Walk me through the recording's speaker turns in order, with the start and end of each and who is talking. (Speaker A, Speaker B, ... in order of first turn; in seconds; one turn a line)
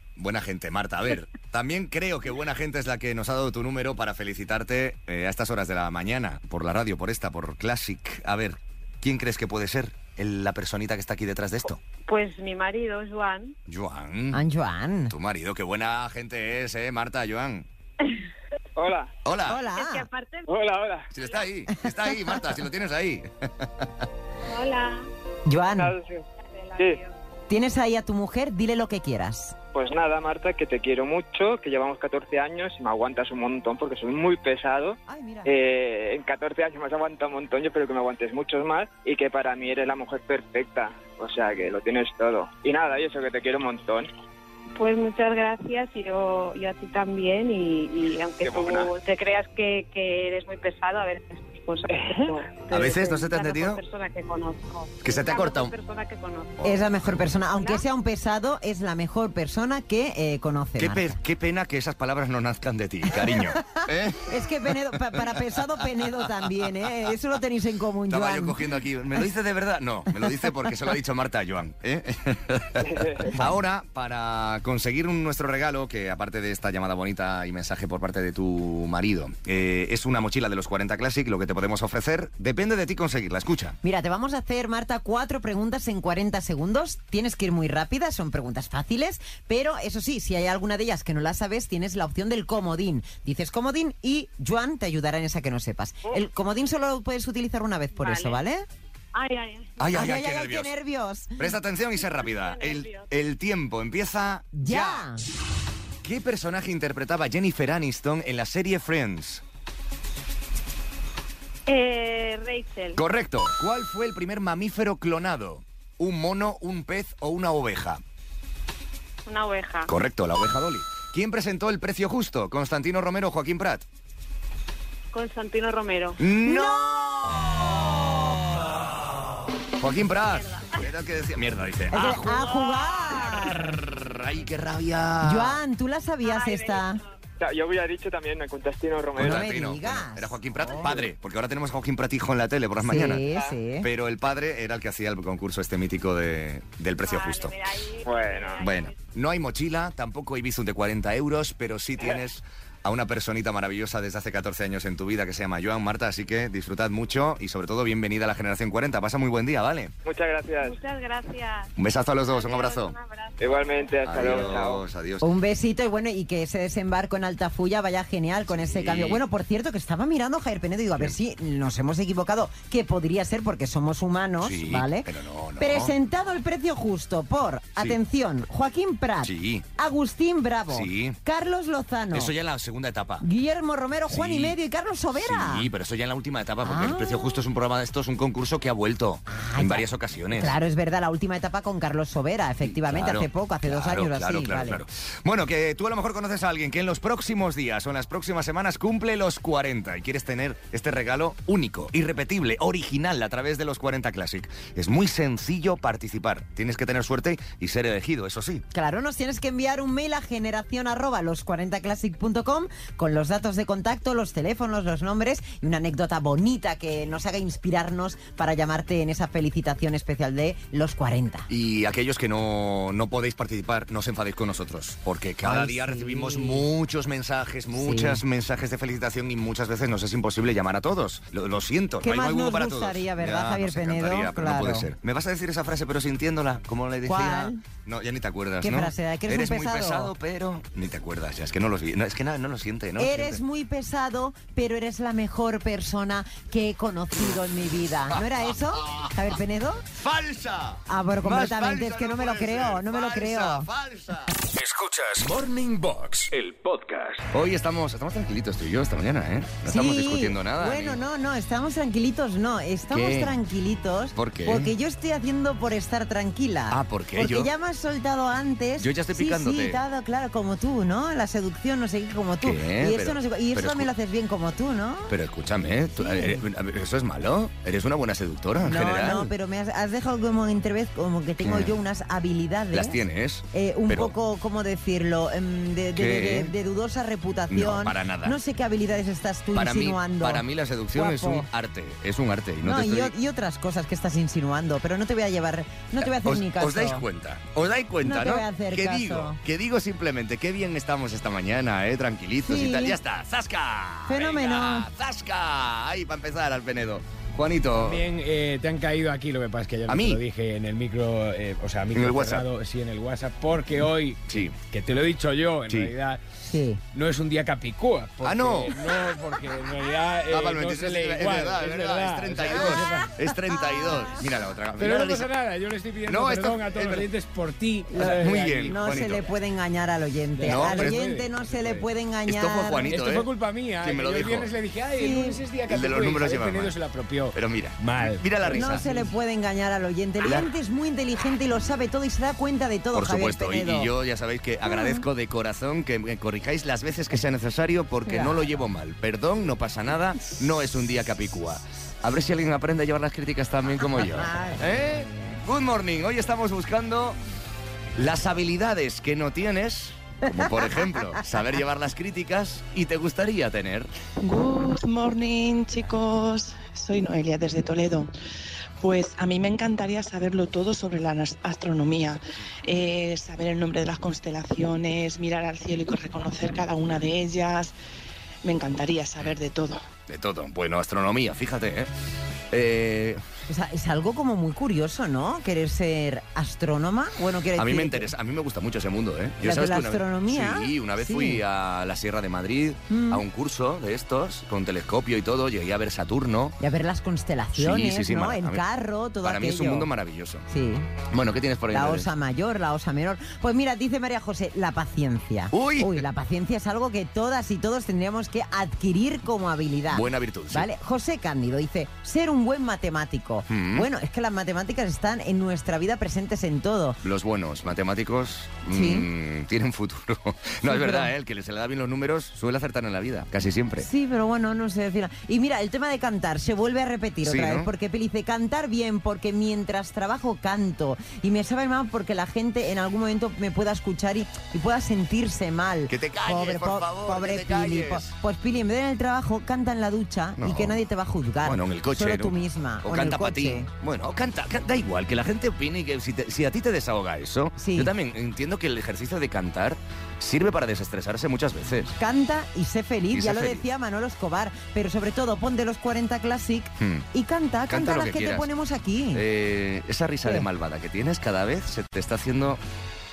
Speaker A: 0.2-11.8
Speaker B: 12.1-13.6
Speaker A: 13.7-14.4
Speaker C: 14.3-15.1
Speaker A: 15.1-17.7
Speaker D: 18.8-19.1
Speaker A: 19.2-19.6
Speaker C: 19.5-20.1
Speaker B: 19.7-20.5
Speaker D: 20.5-21.1
Speaker A: 21.1-24.1
Speaker B: 24.5-25.1
Speaker C: 25.5-25.9
Speaker D: 25.8-26.2
Speaker B: 26.5-27.1
Speaker C: 27.5-29.6
Speaker D: 29.7-44.1
Speaker C: 35.1-35.5
Speaker B: 44.8-56.9
Speaker D: 48.4-48.9
Speaker D: 51.9-52.4
Speaker A: 52.7-53.8
Speaker A: 55.0-55.7
Speaker C: 56.6-61.2
Speaker B: 57.5-57.8
Speaker A: 60.8-65.6
Speaker C: 63.2-68.6
Speaker A: 68.1-83.8
Speaker D: 72.8-73.3
Speaker C: 83.8-98.7
Speaker B: 98.0-98.4
Speaker B: 99.1-99.8
Speaker A: 99.8-100.7
Speaker C: 99.9-101.4
Speaker A: 101.4-105.1
Speaker B: 102.1-103.1
Speaker C: 104.5-105.2
Speaker A: 106.0-109.4
Speaker B: 111.7-113.0
Speaker A: 113.0-118.0
Speaker B: 119.3-119.9
Speaker A: 119.9-123.8
Speaker B: 125.1-126.2
Speaker A: 126.2-128.8
Speaker C: 126.4-128.1
Speaker A: 129.8-132.6
Speaker B: 130.3-130.8
Speaker C: 131.9-133.8
Speaker A: 133.2-135.6
Speaker C: 135.2-137.0
Speaker B: 136.3-137.0
Speaker D: 137.4-139.4
Speaker A: 139.2-147.6
Speaker C: 139.2-140.9
Speaker C: 142.8-143.9
Speaker B: 147.1-148.9
Speaker D: 148.1-148.6
Speaker A: 148.6-159.9
Speaker D: 160.1-160.8
Speaker B: 160.6-161.7
Speaker A: 161.8-162.9
Speaker B: 162.3-163.4
Speaker D: 163.4-164.8
Speaker A: 164.1-165.2
Speaker C: 165.2-182.3
Speaker A: 168.5-169.2
Speaker A: 174.4-175.9
Speaker A: 179.2-179.7
Speaker A: 180.7-181.2
Speaker A: 182.1-183.3
Speaker C: 183.2-185.7
Speaker A: 184.1-184.6
Speaker A: 185.1-190.6
Speaker C: 186.6-187.3
Speaker C: 189.3-194.8
Speaker A: 192.6-208.7
Speaker C: 208.7-221.5
Speaker A: 221.5-243.4
Speaker C: 225.4-226.7
Speaker C: 227.7-228.2
Speaker C: 232.0-234.9
Speaker C: 237.1-237.6
Speaker C: 238.6-240.1
Speaker C: 243.0-249.8
Speaker A: 248.1-249.1
Speaker A: 249.9-254.3
Speaker C: 250.9-253.7
Speaker E: 254.6-257.2
Speaker A: 257.3-261.0
Speaker C: 259.6-275.1
Speaker A: 262.9-263.4
Speaker A: 264.1-264.7
Speaker A: 266.7-267.5
Speaker A: 268.8-269.8
Speaker A: 272.4-273.9
Speaker A: 275.1-279.3
Speaker C: 276.0-276.4
Speaker C: 278.6-291.5
Speaker A: 281.4-281.8
Speaker A: 282.7-284.1
Speaker A: 285.9-286.5
Speaker A: 287.5-288.4
Speaker A: 289.5-293.1
Speaker C: 292.6-297.0
Speaker A: 296.0-308.1
Speaker C: 298.0-299.4
Speaker C: 302.4-303.0
Speaker C: 304.1-304.9
Speaker F: 307.8-316.2
Speaker A: 309.9-310.2
Speaker A: 311.9-312.5
Speaker A: 314.3-314.6
Speaker C: 316.5-316.8
Speaker F: 316.9-323.1
Speaker A: 318.2-318.9
Speaker A: 320.3-325.3
Speaker C: 322.7-324.1
Speaker F: 324.8-329.1
Speaker A: 326.1-327.1
Speaker C: 327.9-332.9
Speaker A: 327.9-329.3
Speaker F: 330.3-331.9
Speaker A: 330.4-331.0
Speaker A: 332.3-333.3
Speaker F: 332.9-339.1
Speaker A: 333.8-334.5
Speaker C: 335.0-335.4
Speaker A: 335.7-336.8
Speaker A: 337.3-338.9
Speaker C: 338.5-343.9
Speaker A: 340.2-340.5
Speaker A: 342.9-357.2
Speaker C: 344.7-345.0
Speaker C: 348.1-348.5
Speaker C: 353.9-355.4
Speaker A: 358.0-363.9
Speaker C: 360.3-361.2
Speaker G: 364.2-368.1
Speaker G: 368.8-377.8
Speaker G: 378.4-379.8
Speaker A: 380.1-381.9
Speaker A: 382.5-383.2
Speaker C: 383.5-388.1
Speaker A: 387.6-396.6
Speaker C: 389.4-391.4
Speaker C: 392.9-393.2
Speaker C: 396.6-399.9
Speaker A: 397.6-398.6
Speaker A: 399.2-400.5
Speaker C: 400.5-400.9
Speaker A: 401.1-402.1
Speaker C: 401.7-417.0
Speaker A: 405.5-406.1
Speaker A: 409.9-410.7
Speaker A: 413.5-413.9
Speaker A: 417.0-423.9
Speaker C: 418.7-419.1
Speaker C: 420.7-421.1
Speaker C: 423.8-443.7
Speaker A: 427.2-427.7
Speaker A: 435.9-438.1
Speaker A: 440.4-440.8
Speaker A: 441.4-451.9
Speaker C: 447.6-447.9
Speaker C: 452.0-459.2
Speaker A: 453.1-453.6
Speaker A: 456.8-457.1
Speaker A: 457.7-458.5
Speaker A: 459.1-462.6